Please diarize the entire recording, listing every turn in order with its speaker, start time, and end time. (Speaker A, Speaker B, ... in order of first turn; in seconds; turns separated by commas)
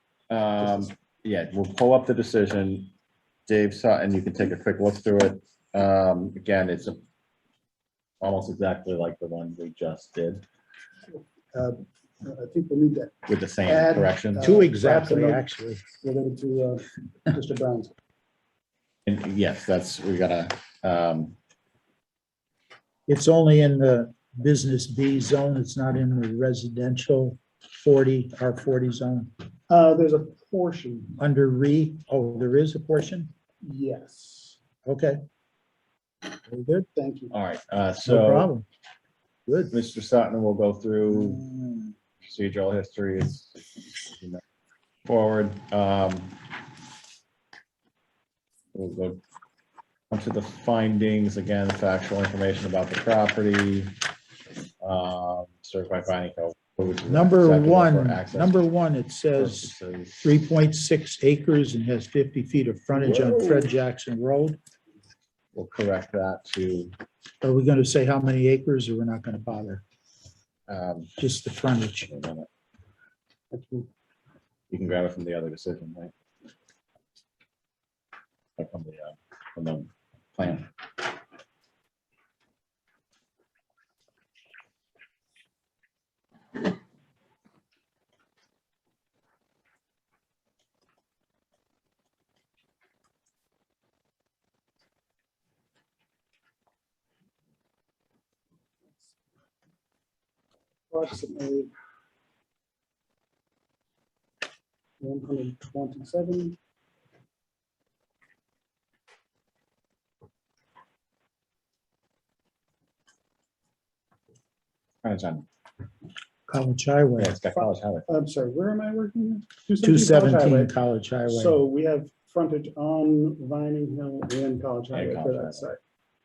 Speaker A: 0.3-2.9, Speaker A: 3.5-7.0, Speaker A: 8.2-10.4, Speaker B: 11.2-15.4, Speaker A: 13.3-14.6, Speaker C: 14.4-15.8, Speaker B: 16.0-17.9, Speaker A: 19.1-21.4, Speaker C: 23.1-29.3, Speaker B: 29.7-31.1, Speaker C: 31.2-33.3, Speaker B: 33.6-34.6, Speaker C: 34.9-35.2, Speaker C: 36.5-36.9, Speaker B: 37.0-37.3, Speaker A: 37.3-38.5, Speaker C: 38.0-38.6, Speaker C: 39.5-39.7, Speaker A: 39.7-41.4, Speaker C: 41.1-41.9, Speaker A: 42.2-44.4, Speaker A: 45.1-46.4, Speaker A: 48.7-49.2, Speaker A: 50.1-53.9, Speaker A: 54.8-58.5, Speaker C: 57.1-64.6, Speaker A: 59.4-60.2, Speaker B: 63.0-63.5, Speaker A: 65.5-66.9, Speaker C: 67.4-69.8, Speaker A: 70.7-71.1, Speaker C: 71.2-72.1, Speaker A: 72.1-72.5, Speaker B: 73.5-73.9, Speaker A: 74.7-76.1, Speaker A: 78.6-80.7, Speaker B: 100.9-101.7, Speaker B: 105.0-106.6, Speaker A: 115.0-115.5, Speaker C: 116.5-117.4, Speaker A: 117.2-118.1, Speaker B: 118.1-120.7, Speaker C: 119.8-121.6, Speaker B: 121.3-125.8, Speaker A: 124.9-125.7